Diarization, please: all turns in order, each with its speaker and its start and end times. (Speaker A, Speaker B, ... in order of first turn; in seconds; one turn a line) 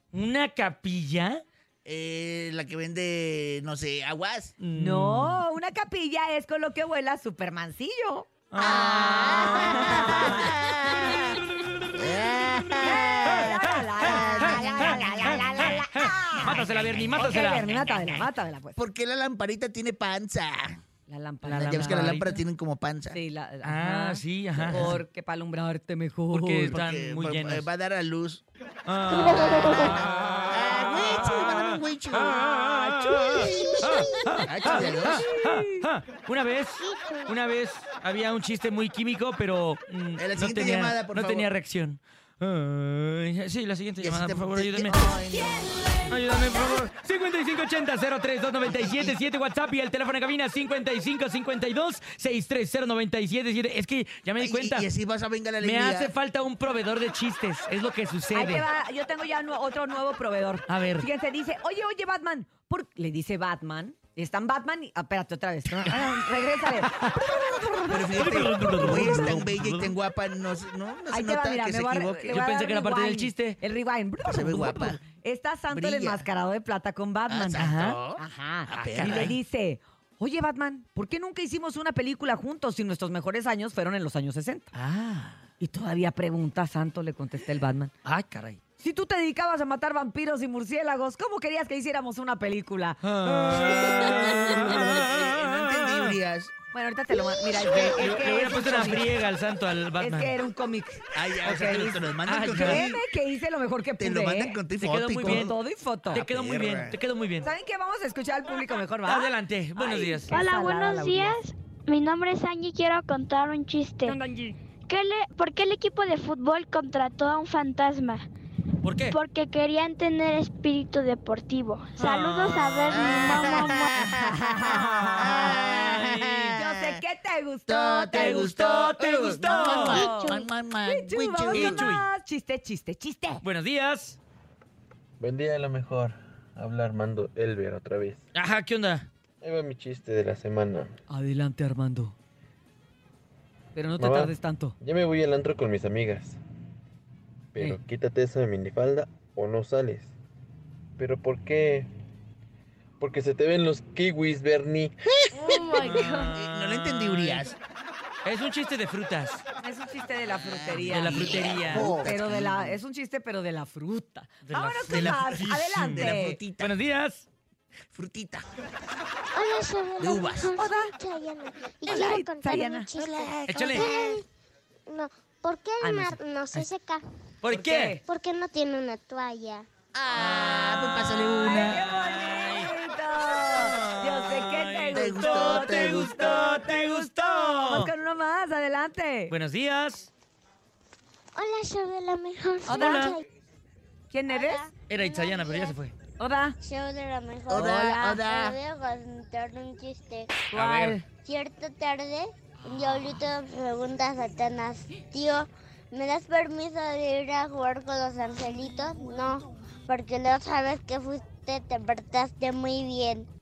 Speaker A: 0.1-1.4
Speaker B: 1.8-4.5
Speaker A: 4.6-5.4
Speaker C: 4.7-10.6
Speaker A: 8.5-10.3
Speaker B: 8.6-11.4
Speaker B: 11.9-13.5
Speaker C: 12.8-18.8
Speaker A: 13.2-17.7
Speaker B: 14.0-15.7
Speaker B: 18.8-20.8
Speaker C: 21.1-22.2
Speaker A: 21.4-22.4
Speaker B: 21.5-23.2
Speaker C: 23.1-26.7
Speaker A: 23.6-25.0
Speaker B: 24.5-24.9
Speaker A: 26.3-27.7
Speaker B: 26.6-28.4
Speaker A: 28.9-30.1
Speaker D: 29.4-29.7
Speaker B: 29.8-33.7
Speaker A: 31.6-45.0
Speaker D: 33.5-34.0
Speaker B: 34.4-35.2
Speaker C: 34.7-35.8
Speaker D: 36.9-37.3
Speaker B: 40.2-41.5
Speaker B: 44.0-46.1
Speaker C: 44.9-46.1
Speaker A: 46.1-54.9
Speaker B: 48.6-49.1
Speaker B: 54.4-56.1
Speaker A: 55.6-58.6
Speaker C: 58.3-68.9
Speaker A: 60.7-61.1
Speaker B: 67.9-72.4
Speaker A: 68.1-70.0
Speaker C: 71.1-77.6
Speaker A: 72.3-73.6
Speaker B: 74.2-75.0
Speaker B: 75.7-76.3
Speaker B: 77.3-79.3
Speaker A: 77.5-78.0
Speaker C: 78.2-84.7
Speaker A: 78.7-79.3
Speaker A: 84.7-85.4
Speaker C: 85.6-87.9
Speaker A: 88.0-88.6
Speaker C: 88.8-94.8
Speaker A: 93.0-96.2
Speaker B: 94.1-96.5
Speaker C: 96.7-99.1
Speaker A: 97.7-100.4
Speaker C: 100.0-104.6
Speaker B: 101.1-103.0
Speaker A: 102.2-102.9
Speaker B: 104.0-105.5
Speaker A: 104.8-105.5
Speaker C: 105.2-106.2
Speaker B: 106.0-107.0
Speaker A: 106.1-107.5
Speaker C: 107.4-111.4
Speaker A: 109.0-110.4
Speaker E: 110.3-114.2
Speaker C: 114.0-114.5
Speaker E: 114.9-118.2
Speaker A: 118.8-119.2
Speaker E: 119.1-124.0
Speaker A: 122.0-123.3
Speaker B: 122.9-127.0
Speaker C: 124.0-125.7
Speaker A: 124.6-126.6
Speaker C: 126.5-133.4
Speaker B: 127.7-131.8
Speaker A: 128.1-130.1
Speaker D: 130.0-130.3
Speaker A: 131.5-132.1
Speaker A: 133.4-134.2
Speaker F: 135.2-138.2
Speaker A: 138.3-139.1
Speaker F: 139.4-140.9
Speaker C: 141.1-142.1
Speaker C: 143.7-144.8
Speaker F: 144.0-146.4
Speaker F: 147.5-150.1
Speaker F: 151.0-151.9
Speaker F: 153.0-154.9
Speaker C: 155.3-156.3
Speaker A: 155.6-157.5
Speaker B: 156.3-157.6
Speaker A: 158.2-159.4
Speaker C: 159.6-166.4
Speaker B: 160.5-162.2
Speaker A: 160.9-162.7
Speaker A: 164.5-167.2
Speaker B: 164.9-166.8
Speaker B: 167.9-168.4
Speaker D: 169.3-174.2
Speaker B: 170.0-170.6
Speaker C: 170.5-170.9
Speaker C: 171.8-173.2
Speaker B: 172.9-174.2
Speaker A: 173.5-173.9
Speaker D: 174.9-177.0
Speaker C: 175.8-176.7
Speaker A: 177.4-178.0
Speaker C: 177.5-178.0
Speaker D: 178.1-179.7
Speaker B: 179.9-181.8
Speaker A: 180.1-187.9
Speaker C: 181.4-189.3
Speaker B: 184.9-186.3
Speaker A: 189.3-190.1
Speaker D: 191.3-193.2
Speaker C: 192.7-193.1
Speaker A: 192.7-193.2
Speaker C: 194.1-194.7
Speaker D: 194.3-195.8
Speaker A: 194.9-195.9
Speaker C: 196.2-196.6
Speaker D: 196.6-200.4
Speaker B: 197.5-198.6
Speaker C: 197.5-198.3
Speaker A: 200.5-201.0
Speaker C: 200.5-201.0
Speaker D: 201.2-213.3